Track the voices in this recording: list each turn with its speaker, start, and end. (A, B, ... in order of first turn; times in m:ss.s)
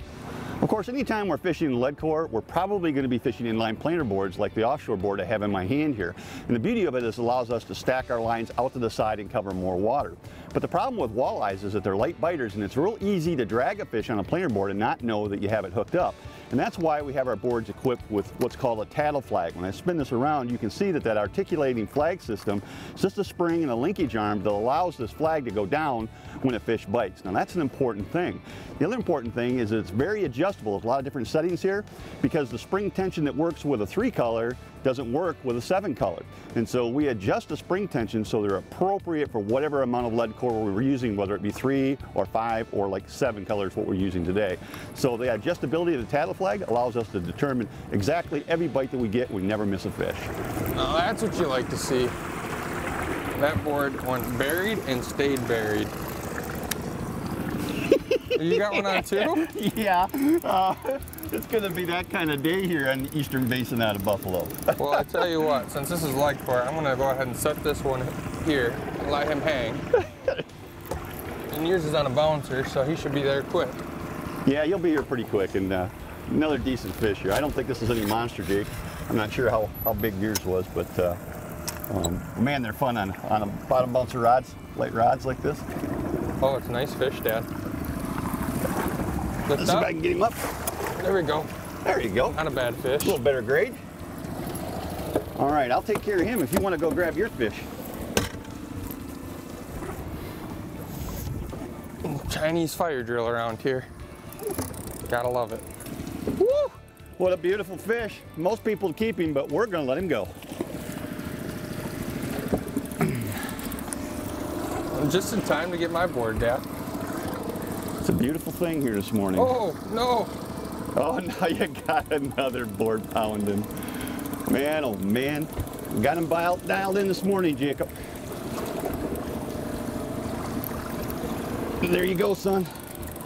0:00.6-0:50.3 A
0:50.7-0:52.1 B
0:53.3-0:55.9 B
0:57.8-1:05.4 A
0:58.3-0:59.5 B
1:04.8-1:09.8 B
1:11.5-1:13.8 B
1:14.4-1:21.2 A
1:21.9-1:25.7 A
1:26.4-1:27.5 B
1:29.5-1:29.9 B
1:29.5-1:30.5 A
1:31.0-1:31.5 B
1:31.8-1:32.4 A
1:32.3-1:33.2 B
1:33.0-1:33.8 A
1:35.4-1:37.7 A
1:42.0-1:43.9 B
1:45.1-1:45.6 B
1:46.3-1:50.3 A
1:53.0-1:53.3 A
1:54.9-1:56.6 B
1:58.0-1:59.5 A
1:59.4-2:00.3 B
2:00.9-2:07.9 A
2:11.8-2:12.7 A